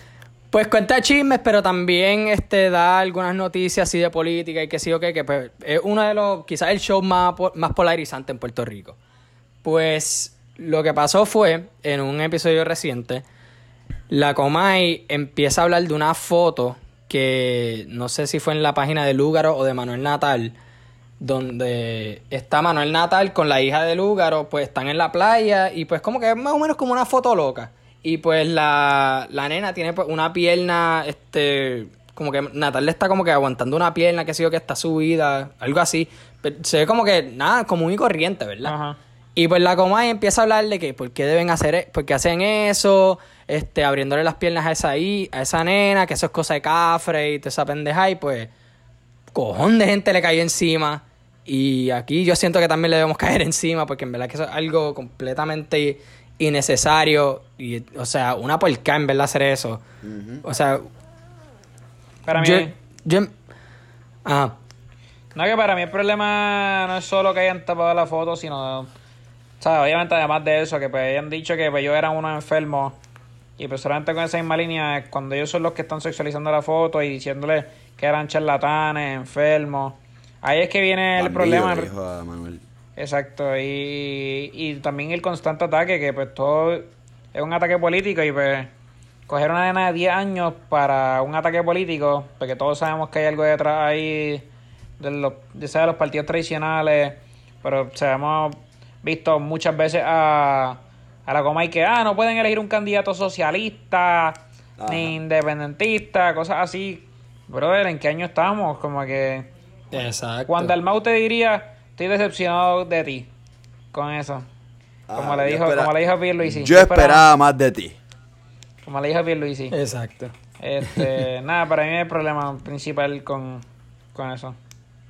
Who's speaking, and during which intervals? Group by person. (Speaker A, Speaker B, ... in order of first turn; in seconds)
Speaker A: 0.5-9.0, 9.6-13.2, 14.1-20.6, 21.2-38.7, 39.4-48.5, 49.3-59.8, 60.4-60.9, 62.3-63.3, 64.2-64.5, 109.9-110.7, 119.7-120.3
Speaker B: 38.6-39.0, 62.2-62.7, 65.3-68.9, 69.6-73.0, 73.6-81.9, 83.0-88.7, 89.3-94.5, 95.0-109.5, 110.5-113.3, 113.9-114.5, 115.1-117.3, 118.8-119.8, 120.6-124.6
Speaker C: 60.0-60.4, 81.2-82.6, 104.8-105.2, 115.1-118.0